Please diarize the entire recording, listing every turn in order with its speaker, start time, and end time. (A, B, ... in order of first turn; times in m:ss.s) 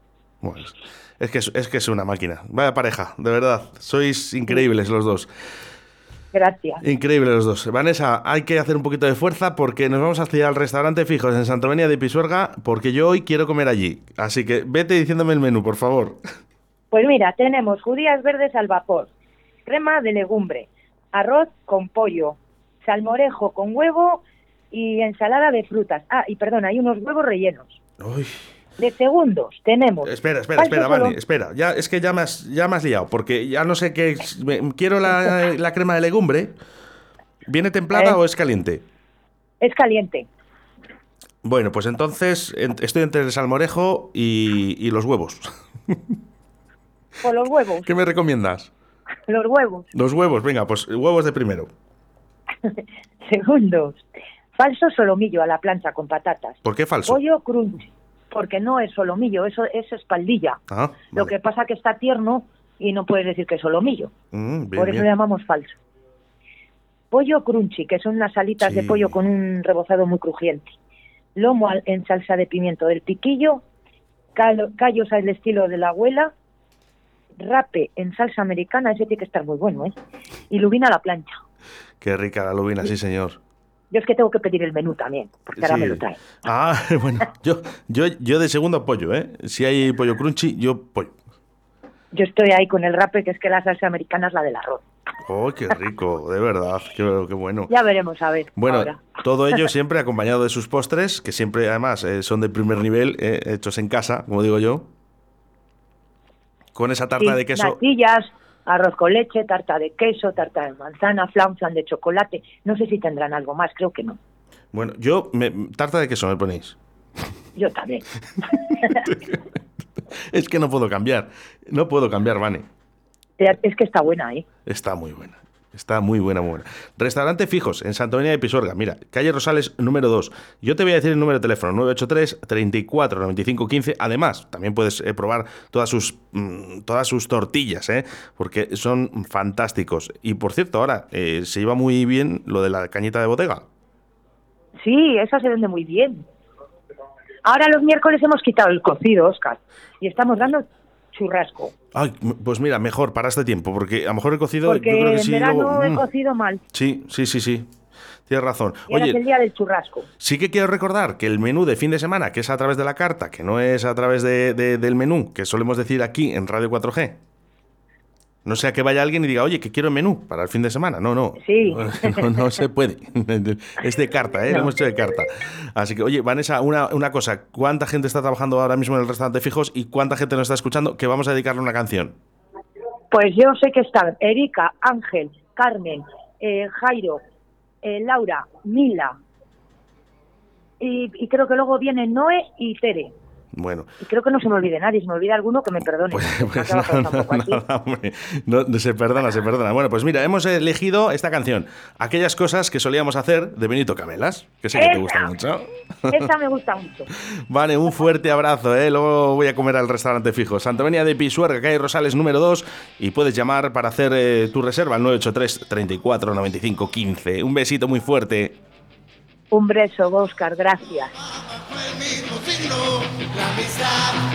0:00.4-0:05.3 A
0:06.3-0:06.8 B
0:06.8-0:16.2 A
0:16.9-0:19.1 B
0:19.7-0:27.8 B
0:28.0-0:28.4 A
0:28.8-0:31.2 B
0:30.0-0:36.6 A
0:37.5-0:38.8 A
0:37.9-0:38.2 B
0:39.6-0:40.3 B
0:41.4-0:46.0 A
0:47.2-0:47.9 B
0:47.8-0:48.7 A
0:49.3-0:49.9 B
0:49.9-0:51.7 A
0:52.6-0:54.0 B
0:54.6-1:00.6 B
0:56.6-0:57.2 A
1:00.7-1:01.3 A
1:01.1-1:04.1 B
1:04.3-1:05.1 A
1:04.8-1:05.8 B
1:07.1-1:10.7 B
1:08.6-1:09.1 A
1:11.4-1:13.6 B
1:14.4-1:16.3 B
1:17.4-1:20.0 B
1:20.5-1:21.3 B
1:22.0-1:23.4 A
1:23.9-1:26.2 B
1:25.6-1:31.1 A
1:32.1-1:34.8 B
1:35.2-1:37.7 A
1:37.7-1:39.0 B
1:38.6-1:44.9 A
1:46.8-1:47.8 A
1:47.2-1:54.2 B
1:54.7-1:56.8 A
1:57.6-1:58.1 B
1:58.8-1:59.5 A
2:00.3-2:02.6 A
2:03.4-2:04.4 B
2:04.7-2:23.7 A
2:24.8-2:26.2 B
2:27.4-2:31.7 B
2:31.9-2:36.0 A
2:34.6-2:36.6 B
2:36.7-2:37.7 A
2:38.3-2:39.2 A
2:38.9-2:40.1 B
2:40.2-2:47.2 A
2:48.4-3:02.2 A
2:51.4-2:52.3 B
3:03.1-3:07.2 B
3:07.8-3:09.1 B
3:10.8-3:13.1 B
3:13.5-3:13.9 A
3:14.0-3:17.6 B
3:16.1-3:26.3 A
3:24.8-3:25.3 B
3:26.1-3:27.1 B
3:27.4-3:38.6 A
3:39.5-3:41.1 B
3:42.1-3:44.1 C